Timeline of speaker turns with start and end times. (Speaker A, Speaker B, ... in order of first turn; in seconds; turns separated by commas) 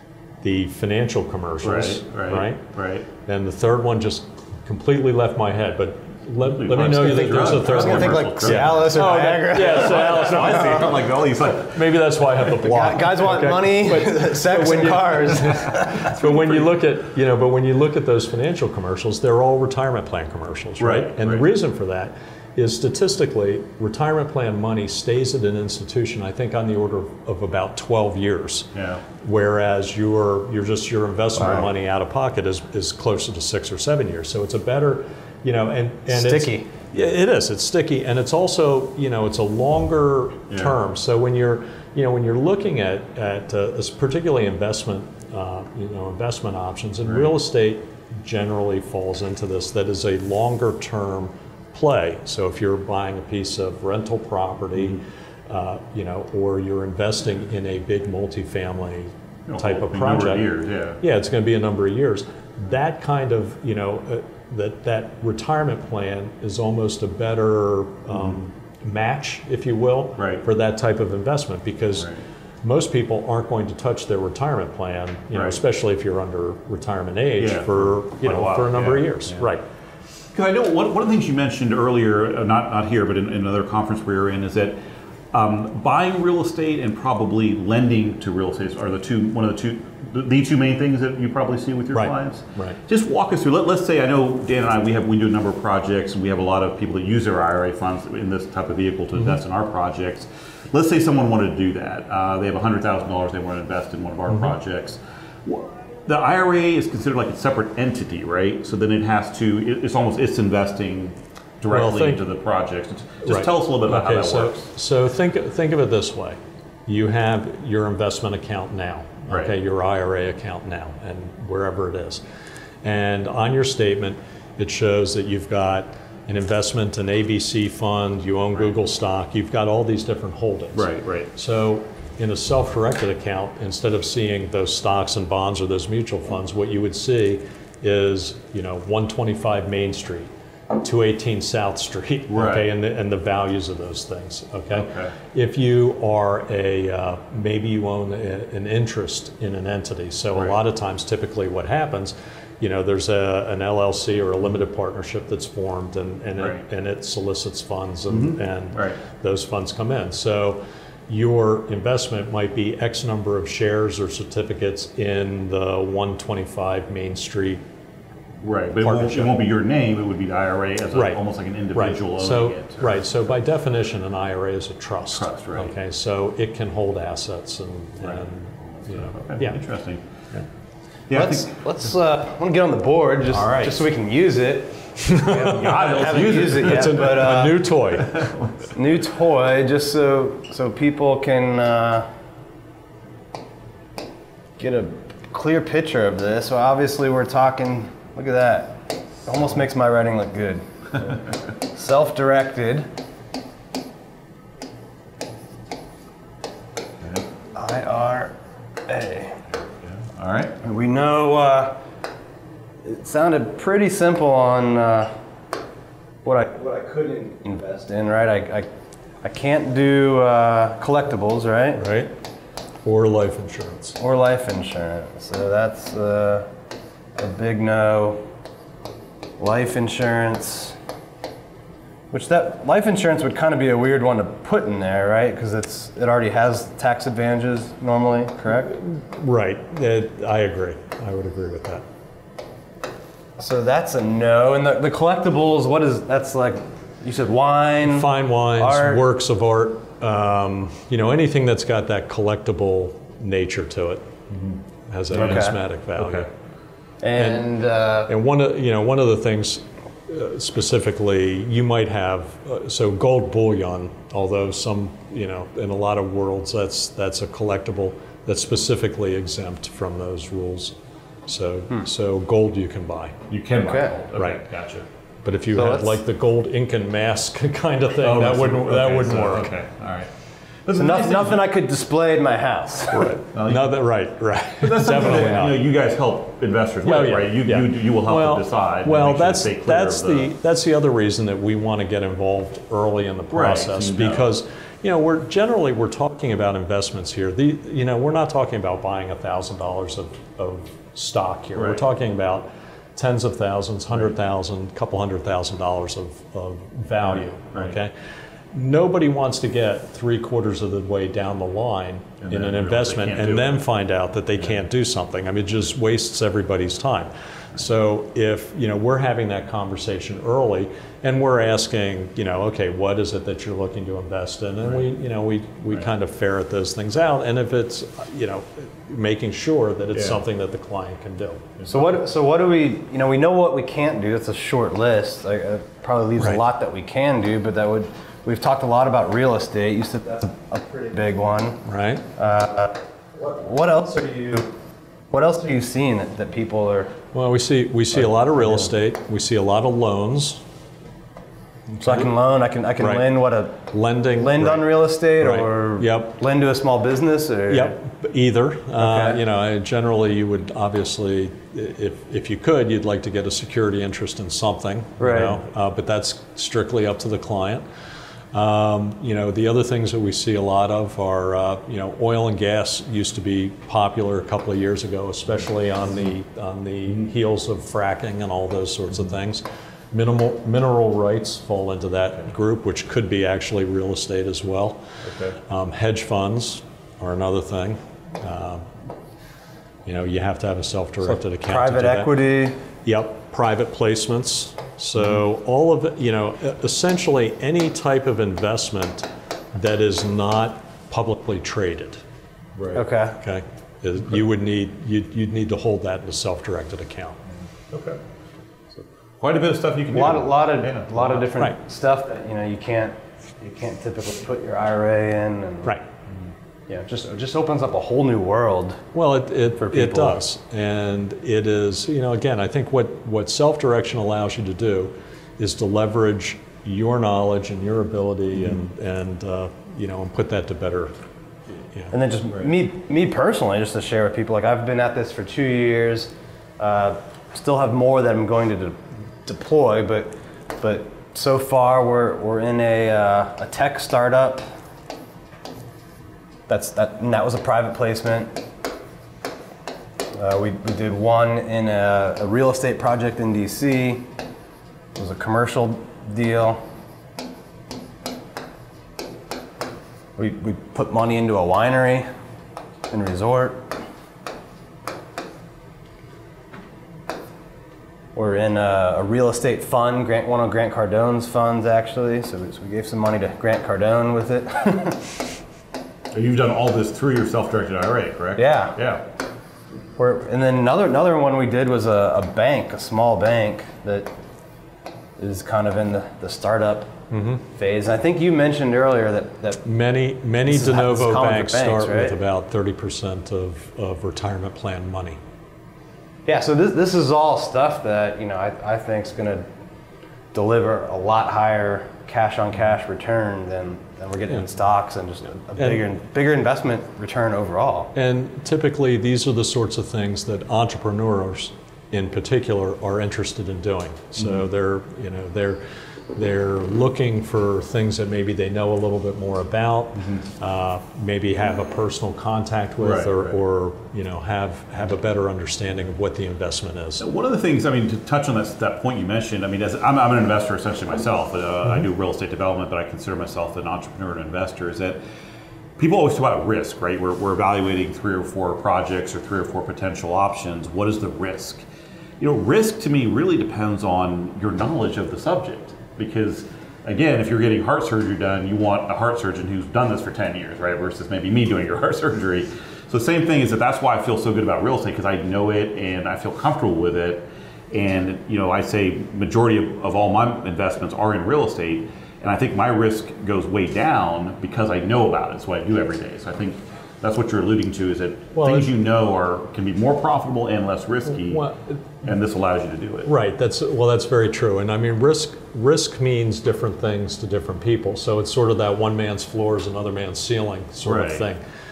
Speaker A: 0.4-2.6, Speaker B: 1.6-3.1, Speaker A: 3.2-60.4, Speaker B: 6.4-12.1, Speaker C: 7.5-10.9, Speaker C: 12.6-16.1, Speaker B: 16.2-16.6, Speaker B: 20.8-21.5, Speaker B: 28.7-29.0, Speaker C: 36.1-36.7, Speaker B: 47.0-47.3, Speaker B: 59.5-61.0, Speaker A: 61.0-72.1, Speaker B: 70.2-70.4, Speaker A: 72.6-79.6, Speaker B: 75.3-75.6, Speaker B: 77.4-79.5, Speaker B: 80.3-84.8, Speaker B: 85.3-114.7, Speaker A: 91.9-92.8, Speaker A: 111.7-112.2, Speaker A: 113.2-122.2, Speaker B: 119.3-119.5, Speaker A: 122.8-140.3, Speaker B: 130.7-131.3, Speaker A: 140.8-167.6, Speaker B: 142.3-142.7, Speaker B: 144.7-145.1, Speaker B: 156.4-156.6, Speaker B: 158.1-158.9, Speaker B: 168.4-173.1, Speaker A: 168.8-169.3, Speaker A: 170.9-171.2, Speaker A: 171.7-179.6, Speaker B: 175.1-175.7, Speaker B: 178.0-180.0, Speaker B: 181.1-181.5, Speaker C: 181.1-187.6, Speaker B: 183.3-183.8, Speaker A: 185.0-188.2, Speaker B: 185.3-188.7, Speaker C: 188.7-192.1, Speaker C: 194.6-202.9, Speaker C: 207.5-208.3, Speaker C: 208.9-209.4, Speaker B: 209.9-210.6, Speaker C: 210.6-211.8, Speaker C: 212.8-215.1, Speaker C: 216.2-218.7, Speaker C: 219.2-221.8, Speaker A: 221.8-222.1, Speaker A: 222.8-224.0, Speaker C: 224.0-226.5, Speaker C: 227.2-228.2, Speaker C: 229.4-230.8, Speaker C: 232.1-238.7, Speaker A: 238.7-241.8, Speaker C: 243.4-249.0, Speaker A: 247.8-254.1, Speaker A: 254.9-256.3, Speaker B: 255.1-255.4, Speaker C: 255.1-255.6, Speaker B: 256.0-256.2, Speaker C: 257.0-258.1, Speaker A: 257.1-257.4, Speaker A: 258.1-270.7, Speaker A: 271.3-273.2, Speaker B: 273.3-274.9, Speaker C: 273.6-273.9, Speaker A: 274.1-274.5, Speaker A: 275.2-279.5, Speaker C: 275.5-276.0, Speaker B: 278.0-280.1, Speaker B: 280.6-281.4, Speaker C: 280.7-283.1, Speaker A: 282.9-285.6, Speaker B: 283.3-283.8, Speaker B: 284.6-290.3, Speaker A: 286.8-307.9, Speaker B: 293.3-294.3, Speaker B: 301.6-301.8, Speaker B: 307.1-307.8, Speaker A: 308.5-331.6, Speaker B: 312.2-313.6, Speaker C: 331.7-341.6, Speaker A: 341.6-342.0, Speaker C: 342.1-344.5, Speaker C: 345.1-346.9, Speaker A: 347.1-350.4, Speaker A: 351.8-352.1, Speaker C: 351.8-353.6, Speaker A: 352.8-353.1, Speaker A: 353.7-356.1, Speaker C: 354.1-357.7, Speaker A: 357.5-367.6, Speaker C: 358.8-359.2, Speaker C: 365.0-365.4, Speaker A: 368.3-384.8, Speaker B: 385.0-385.4, Speaker A: 385.5-388.7, Speaker A: 389.8-392.2, Speaker C: 391.1-392.6, Speaker A: 392.8-402.0, Speaker B: 402.6-402.8, Speaker C: 402.7-403.2, Speaker A: 403.2-407.2, Speaker B: 407.7-408.0, Speaker B: 409.2-411.3, Speaker C: 409.9-415.7, Speaker C: 416.7-418.8, Speaker A: 418.9-430.9, Speaker C: 419.6-420.2, Speaker C: 431.9-444.5, Speaker C: 446.5-448.4, Speaker C: 450.1-454.1, Speaker C: 454.9-456.6, Speaker C: 460.2-462.1, Speaker C: 462.9-463.7, Speaker C: 468.1-475.2, Speaker B: 476.1-479.0, Speaker C: 478.4-478.8, Speaker C: 480.0-484.1, Speaker C: 485.2-486.9, Speaker A: 487.1-487.4, Speaker C: 487.5-489.6, Speaker A: 489.6-495.2, Speaker C: 490.4-492.1, Speaker C: 496.2-499.4, Speaker C: 500.3-507.9, Speaker A: 507.9-515.6, Speaker A: 516.1-527.0, Speaker B: 522.8-523.4, Speaker B: 527.0-535.0, Speaker B: 535.8-541.6, Speaker B: 542.2-571.4, Speaker A: 568.4-568.7, Speaker A: 571.1-571.8, Speaker B: 572.0-573.1, Speaker A: 573.0-581.4, Speaker B: 580.8-581.2